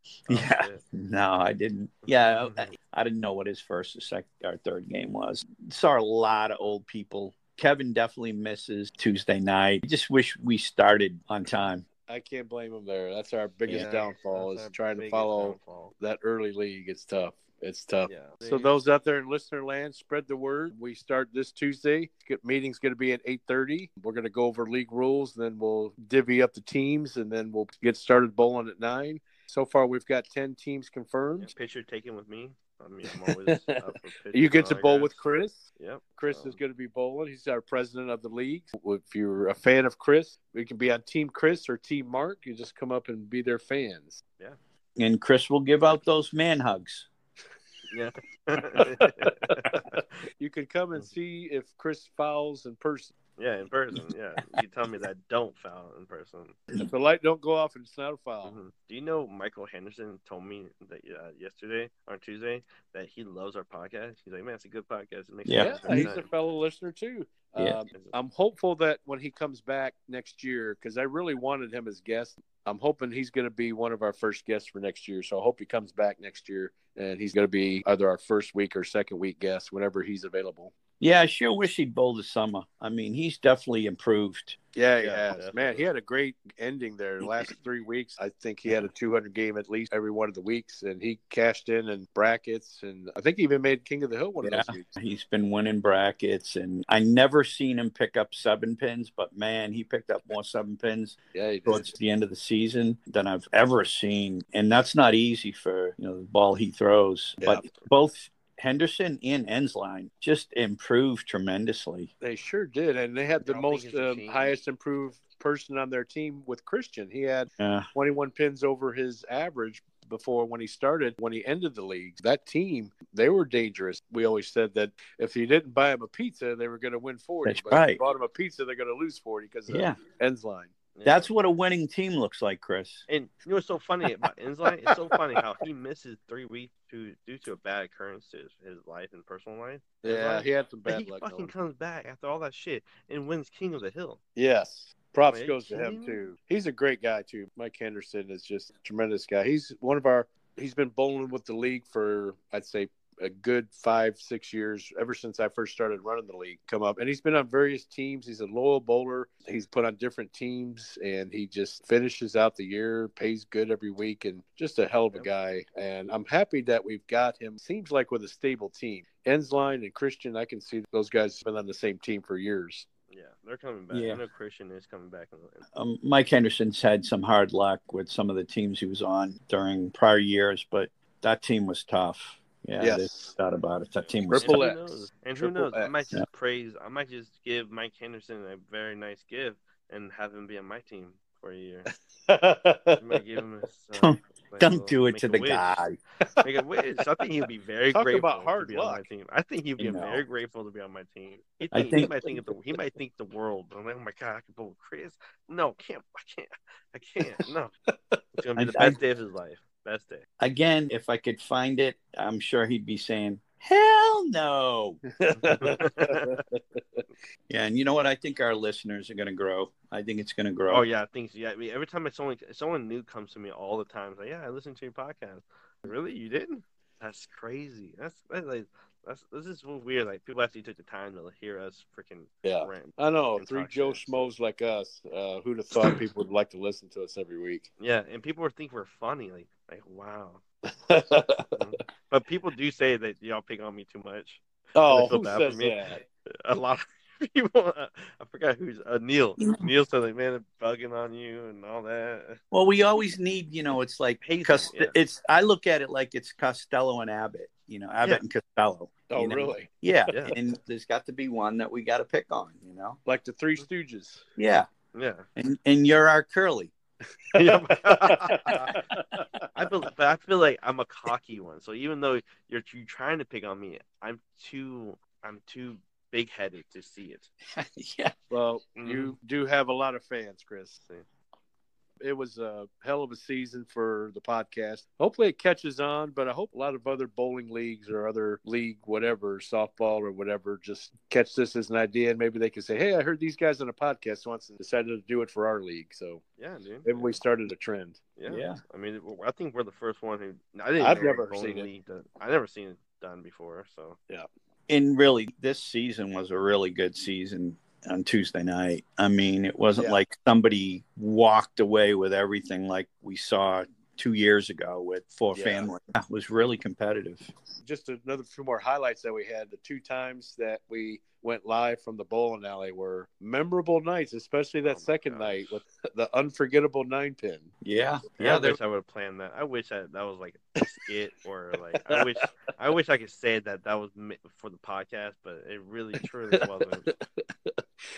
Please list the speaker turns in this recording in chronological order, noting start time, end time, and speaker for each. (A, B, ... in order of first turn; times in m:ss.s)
0:00.2-0:11.8 A
0:00.3-0:00.8 B
0:02.0-0:02.7 B
0:12.1-0:31.5 C
0:13.7-0:15.9 B
0:18.1-0:18.7 B
0:31.4-0:36.6 B
0:33.1-0:44.2 C
0:45.0-0:47.1 A
0:47.9-0:50.1 B
0:48.8-0:49.8 C
0:50.4-0:53.1 C
0:53.4-0:56.6 B
0:56.8-0:58.6 C
0:58.4-1:06.3 B
1:05.4-1:06.1 A
1:05.6-1:20.7 C
1:21.0-1:24.6 A
1:24.7-1:35.0 C
1:25.0-1:25.8 B
1:34.4-1:52.1 A
1:41.3-1:41.9 C
1:47.4-1:47.7 C
1:52.2-2:10.7 C
1:53.4-1:54.6 B
1:57.6-1:57.9 A
2:07.4-2:08.0 A
2:09.7-2:10.0 A
2:10.9-2:11.3 B
2:11.0-2:13.0 A
2:13.1-2:24.2 B
2:20.0-2:21.5 C
2:24.4-2:52.8 C
2:25.3-2:26.2 B
2:53.1-2:55.6 B
2:53.9-2:54.2 A
2:55.7-3:04.6 A
3:02.8-3:03.1 C
3:03.9-3:11.9 B
3:04.3-3:06.0 C
3:12.3-3:13.2 C
3:13.0-3:15.9 B
3:14.0-3:16.0 A
3:16.4-3:27.7 B
3:17.9-3:19.0 C
3:19.8-3:20.2 A
3:21.7-3:22.3 A
3:27.9-3:28.2 C
3:28.4-3:30.2 B
3:28.6-3:29.0 A
3:30.4-3:35.0 A
3:35.2-3:37.0 C
3:35.4-3:36.4 B
3:37.5-3:40.8 A
3:40.7-3:54.3 B
3:52.4-3:57.7 C
3:57.8-4:00.4 B
4:00.9-4:01.6 C
4:01.6-4:05.9 B
4:04.7-4:06.0 C
4:06.4-4:12.4 B
4:09.4-4:09.7 A
4:12.5-4:23.0 A
4:14.2-4:15.0 B
4:19.1-4:19.7 C
4:20.1-4:20.3 B
4:23.0-4:24.2 C
4:24.4-4:24.7 A
4:24.9-4:25.2 B
4:25.4-4:26.7 A
4:27.3-4:29.4 C
4:27.3-4:28.8 B
4:28.5-4:28.8 A
4:29.5-4:37.3 B
4:37.5-4:38.1 A
4:38.3-4:40.8 C
4:38.8-4:39.1 B
4:42.0-4:56.2 C
4:56.4-4:57.2 B
4:56.8-4:58.0 C
4:58.2-5:04.0 B
4:58.3-4:58.6 A
5:00.8-5:01.7 C
5:04.7-5:17.3 A
5:09.8-5:10.0 C
5:15.3-5:15.7 C
5:17.6-5:27.5 C
5:24.6-5:25.6 B
5:27.6-5:28.6 A
5:28.2-5:36.9 B
5:36.3-5:37.6 C